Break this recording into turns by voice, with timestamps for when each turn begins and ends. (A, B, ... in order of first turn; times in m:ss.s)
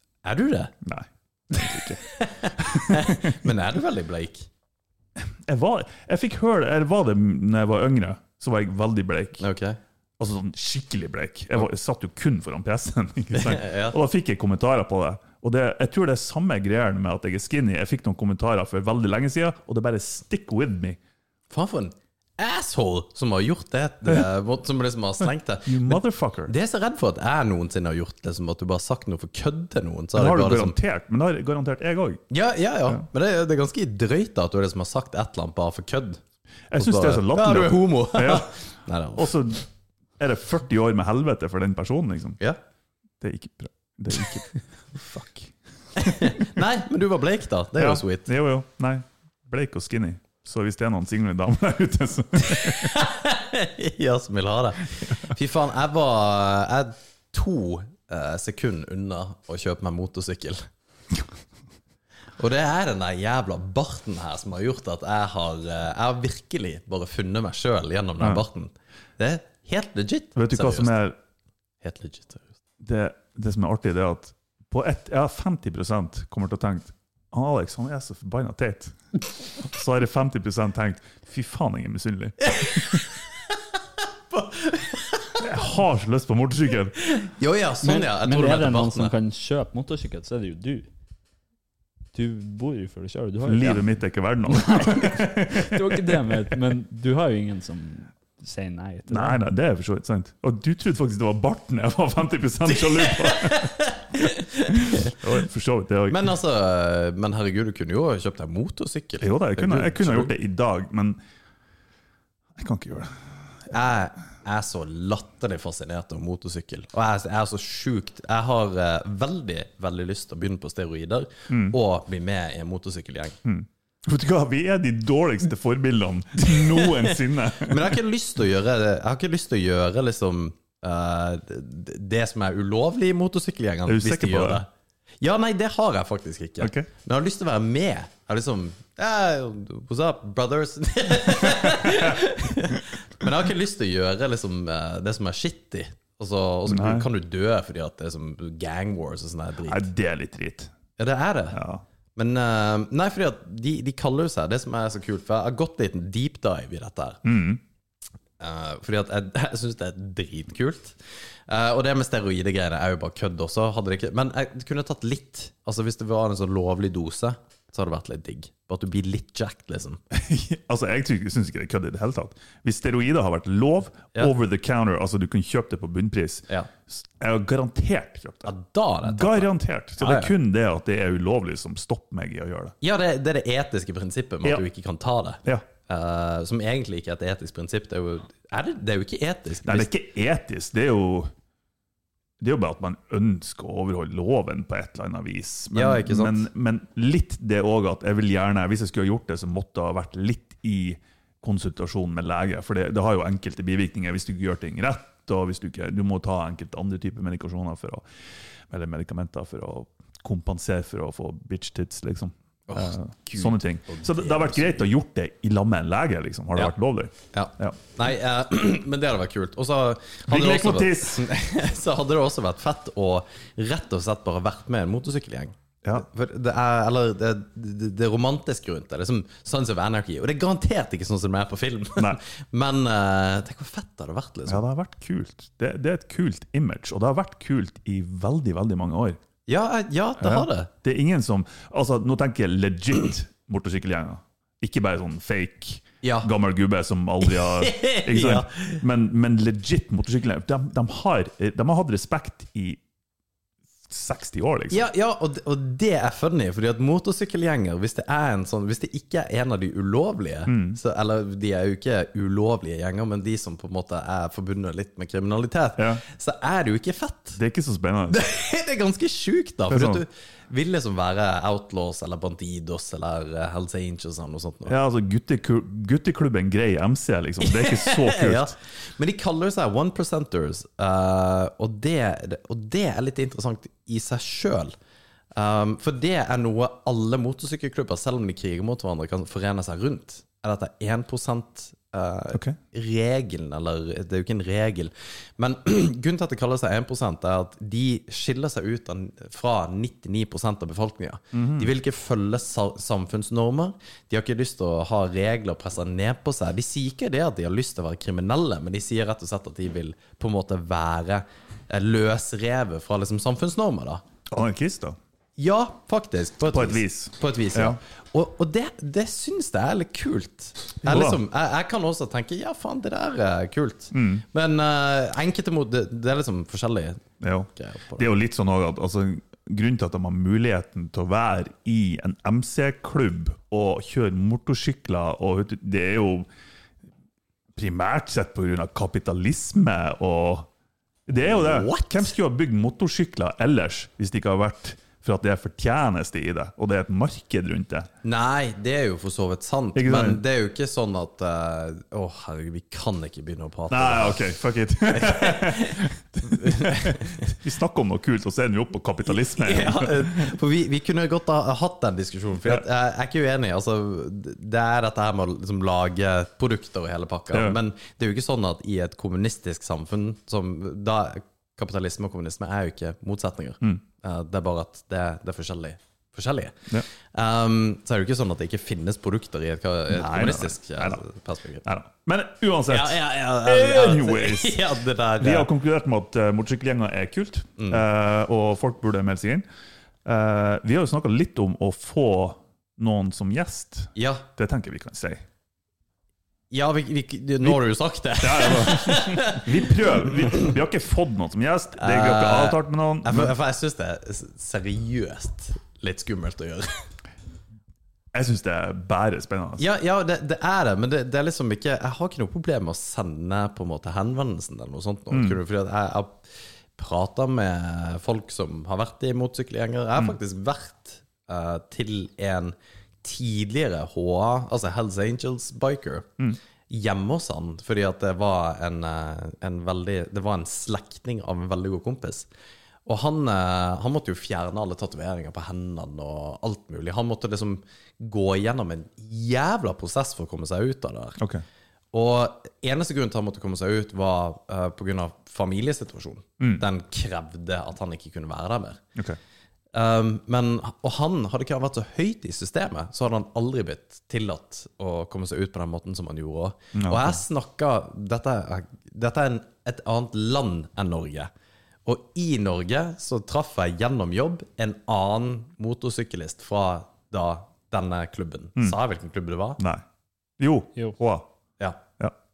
0:00.2-0:00.7 A
0:00.8-0:02.0 B
0:01.6-0:04.5 A
0:02.6-0:03.4 B
0:05.2-0:09.4 B
0:09.4-0:09.8 A
0:10.2-0:21.0 B
0:13.3-0:14.0 A
0:21.5-0:30.8 A
0:25.6-0:26.5 B
0:30.1-0:32.2 B
0:32.3-0:36.2 A
0:36.7-0:38.5 B
0:36.8-0:39.3 A
0:39.2-0:39.6 B
0:40.2-0:42.4 B
0:43.2-0:46.4 B
0:46.0-0:48.3 A
0:47.8-0:53.0 B
0:52.6-1:00.6 A
1:02.4-1:10.9 A
1:10.4-1:11.2 B
1:11.8-1:12.5 A
1:12.8-1:19.0 B
1:19.6-1:23.0 B
1:22.4-1:23.2 A
1:24.3-1:25.4 A
1:25.4-1:26.9 B
1:27.0-1:29.1 A
1:27.8-1:30.9 C
1:32.1-1:33.9 C
1:33.4-1:36.5 B
1:34.5-1:39.4 C
1:39.1-1:43.7 B
1:42.7-1:45.3 A
1:44.7-1:46.3 B
1:46.1-1:50.3 A
1:49.2-1:51.2 B
1:52.6-1:53.2 B
1:53.7-2:03.4 A
2:01.5-2:01.8 B
2:03.4-2:08.0 B
2:06.5-2:14.7 A
2:13.8-2:14.6 B
2:15.2-2:29.8 A
2:16.6-2:16.9 B
2:21.5-2:22.2 B
2:26.7-2:27.1 B
2:29.7-2:30.7 B
2:31.0-2:31.6 A
2:31.5-2:31.8 B
2:32.2-2:37.2 A
2:37.2-2:37.6 B
2:38.4-2:50.0 A
2:50.1-2:58.5 B
2:58.4-3:00.3 A
2:59.0-3:02.7 B
3:02.8-3:09.9 A
3:09.6-3:11.3 B
3:12.4-3:28.0 B
3:15.7-3:16.5 A
3:28.7-3:37.8 B
3:32.7-3:34.8 A
3:37.3-3:54.6 A
3:40.3-3:41.3 B
3:54.5-3:59.2 B
3:59.5-4:00.7 A
4:00.2-4:12.8 B
4:06.0-4:06.3 A
4:07.3-4:08.8 A
4:13.9-4:14.8 B
4:14.7-4:27.4 A
4:20.5-4:20.8 B
4:25.8-4:26.0 B
4:27.4-4:28.2 B
4:28.1-4:34.7 A
4:29.7-4:30.0 B
4:34.7-4:38.5 B
4:37.4-4:44.7 A
4:45.3-5:14.0 A
5:01.3-5:01.7 B
5:14.3-5:15.0 B
5:15.4-5:27.0 A
5:16.5-5:17.8 B
5:20.8-5:21.2 B
5:23.9-5:24.2 B
5:27.2-5:36.3 B
5:27.5-5:28.1 A
5:37.6-5:40.5 B
5:41.1-5:47.9 B
5:41.2-5:42.1 A
5:48.0-5:54.2 A
5:49.7-5:50.2 B
5:53.7-6:00.3 B
5:54.9-5:57.3 A
5:59.1-6:21.6 A
6:07.3-6:07.6 B
6:19.9-6:21.0 B
6:21.6-6:24.6 B
6:22.7-6:25.5 A
6:25.2-6:29.4 B
6:27.6-6:27.8 A
6:30.0-6:35.2 B
6:33.9-6:34.2 A
6:36.5-6:40.5 A
6:38.2-6:43.3 B
6:41.8-6:46.8 A
6:48.1-6:49.6 B
6:49.6-7:06.1 A
6:55.1-6:55.4 B
7:06.7-7:12.3 A
7:12.8-7:21.2 A
7:21.2-7:21.4 B
7:21.9-7:28.8 A
7:29.7-7:41.3 A
7:36.7-7:37.2 B
7:41.8-7:49.6 A
7:50.4-7:51.3 B